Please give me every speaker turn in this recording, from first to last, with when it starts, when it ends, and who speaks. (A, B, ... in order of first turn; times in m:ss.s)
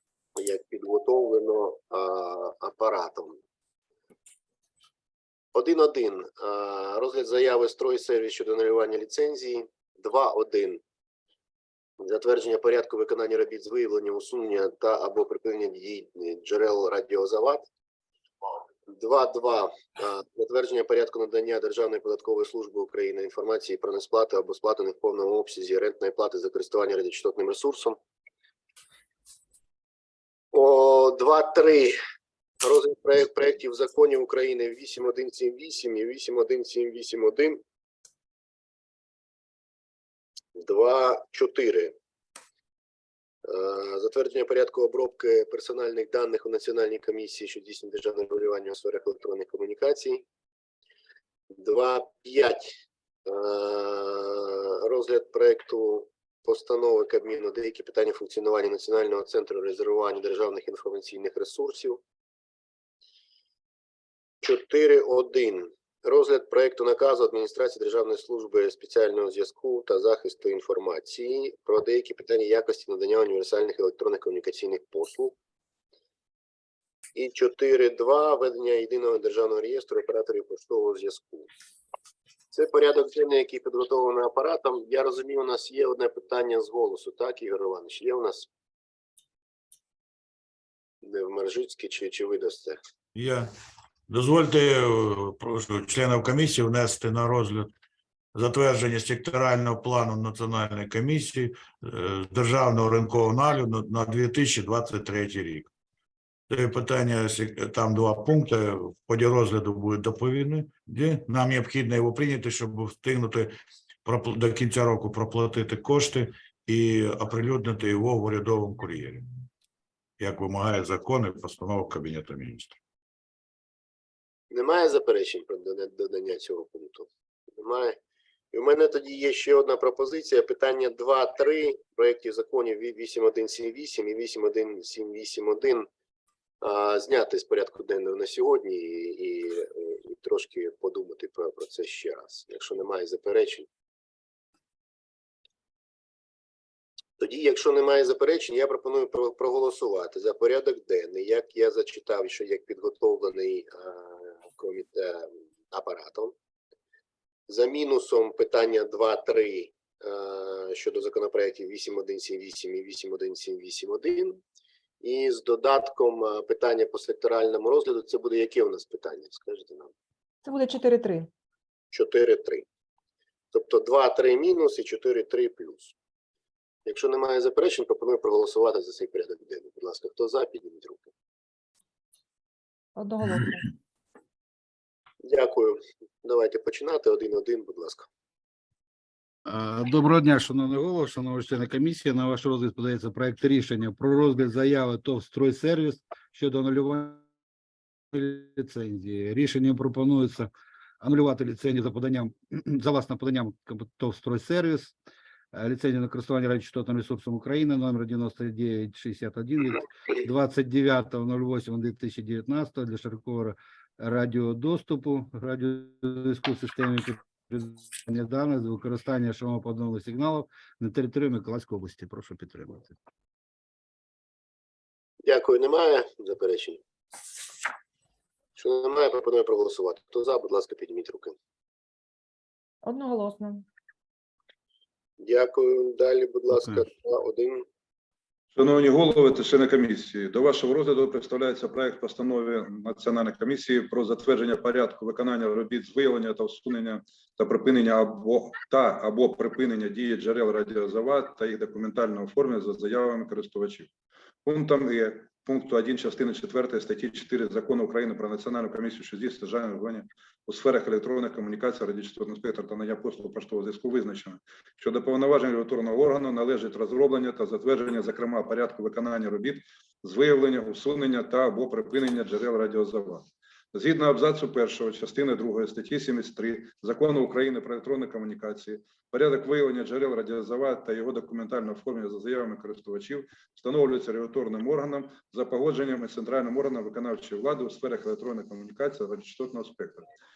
0:00.4-0:03.4 A
0:05.5-0:10.8 A
0:12.0-0:17.7 A
0:18.9-0:28.0 A
0:30.5-0:31.9 A
0:32.7-0:37.6 A
0:40.6-0:41.9 A
0:43.5-0:50.2 A
0:51.6-0:52.7 A
0:53.3-1:02.0 A
1:04.4-1:15.4 A
1:17.2-1:21.5 A
1:22.5-1:28.5 A
1:31.0-1:32.8 A
1:33.2-1:33.5 B
1:34.1-1:37.7 B
1:38.4-1:45.7 B
1:46.5-1:53.5 B
1:54.0-1:59.2 B
2:00.2-2:02.7 B
2:04.5-2:07.1 A
2:07.6-2:08.0 A
2:08.5-2:15.9 A
2:16.6-2:23.7 A
2:27.2-2:36.4 A
2:37.5-2:44.4 A
2:45.0-2:49.9 A
2:50.4-2:51.3 C
2:51.9-2:52.6 A
2:53.5-2:55.9 A
2:56.9-3:01.1 A
3:03.0-3:03.7 C
3:05.3-3:08.1 A
3:09.5-3:17.2 D
3:18.1-3:25.0 D
3:25.5-3:42.9 D
3:45.3-3:46.8 A
3:48.6-3:51.3 A
3:52.8-3:53.6 C
3:55.3-3:57.6 A
3:58.6-4:13.9 E
4:14.4-4:50.1 E